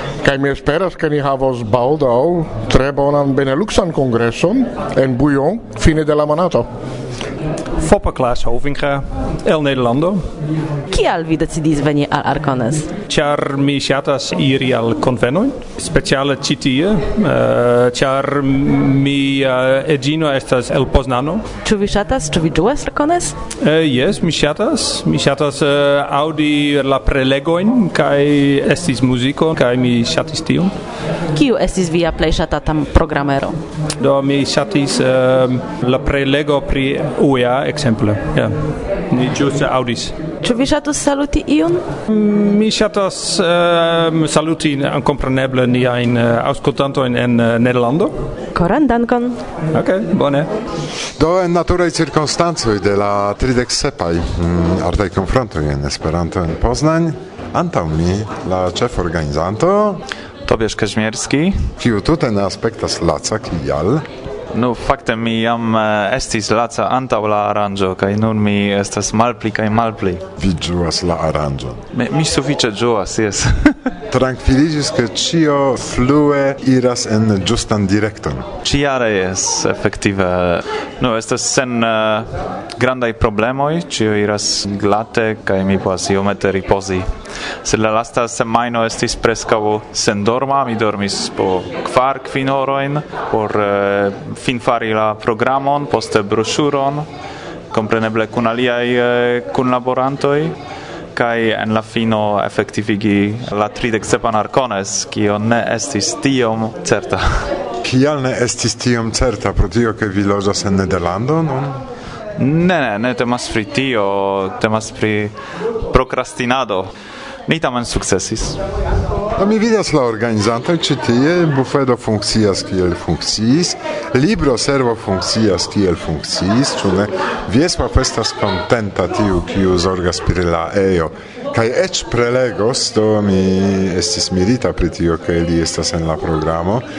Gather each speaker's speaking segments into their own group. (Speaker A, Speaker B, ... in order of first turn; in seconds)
Speaker A: 0.2-6.7
Speaker B: 7.8-10.3, 13.1-21.4, 23.6-30.7, 34.0-40.1, 42.1-48.1, 49.7-50.5
Speaker C: 10.9-12.9, 21.6-23.4, 31.3-33.5, 40.4-41.8, 48.5-49.4
Speaker D: 51.2-60.0, 61.8-64.0, 70.4-71.8, 74.1-78.5, 107.8-111.8, 119.3-136.8
Speaker E: 60.5-61.7, 64.5-70.2, 71.9-73.8, 78.6-87.1, 87.6-97.1, 97.7-100.5, 101.1-107.5, 112.4-115.3, 115.9-116.9, 117.5-118.6